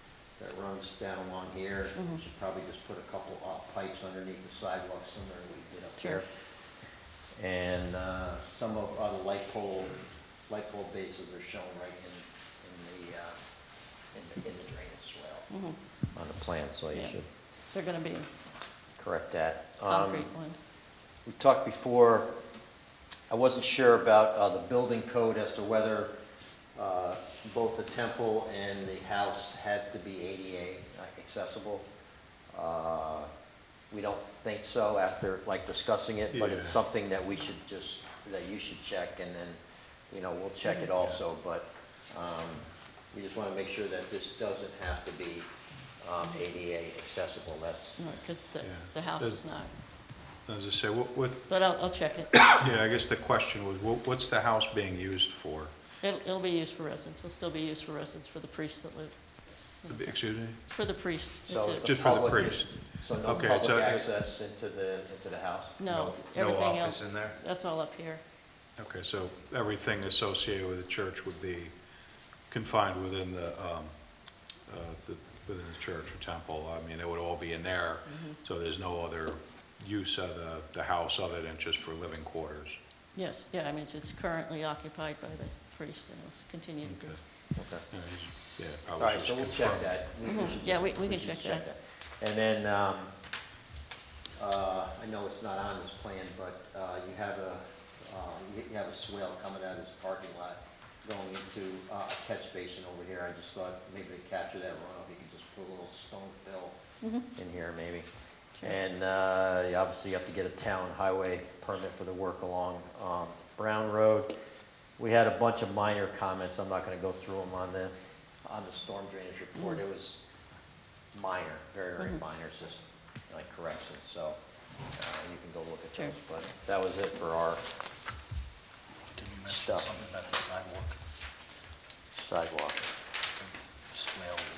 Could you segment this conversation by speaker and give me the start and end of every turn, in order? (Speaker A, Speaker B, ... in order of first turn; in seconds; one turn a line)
Speaker A: 0.4-6.5
Speaker B: 1.9-2.2
Speaker B: 6.0-6.2
Speaker A: 7.3-13.4
Speaker A: 14.1-15.5
Speaker B: 15.5-15.8
Speaker A: 16.1-17.3
Speaker B: 16.9-18.3
Speaker A: 18.9-20.3
Speaker B: 19.8-20.7
Speaker A: 21.2-22.3
Speaker A: 23.3-26.1
Speaker A: 26.7-31.9
Speaker A: 32.5-33.3
Speaker A: 33.9-39.6
Speaker C: 36.3-36.8
Speaker A: 40.1-48.0
Speaker B: 48.0-49.7
Speaker C: 48.6-55.7
Speaker B: 51.5-52.5
Speaker B: 56.0-62.3
Speaker C: 59.9-60.6
Speaker A: 61.5-65.8
Speaker C: 61.8-64.1
Speaker B: 65.8-68.2
Speaker D: 66.3-67.3
Speaker C: 68.8-82.8
Speaker B: 78.0-78.4
Speaker B: 83.1-87.5
Speaker C: 86.8-89.9
Speaker A: 87.5-87.8
Speaker A: 89.0-93.1
Speaker B: 90.2-91.7
Speaker A: 94.4-108.1
Speaker B: 107.0-107.3
Speaker A: 108.6-114.3
Speaker A: 115.0-117.9
Speaker A: 118.4-120.2
Speaker A: 121.1-124.4
Speaker A: 124.9-127.6
Speaker D: 129.2-130.9
Speaker A: 129.5-129.9
Speaker A: 132.1-132.8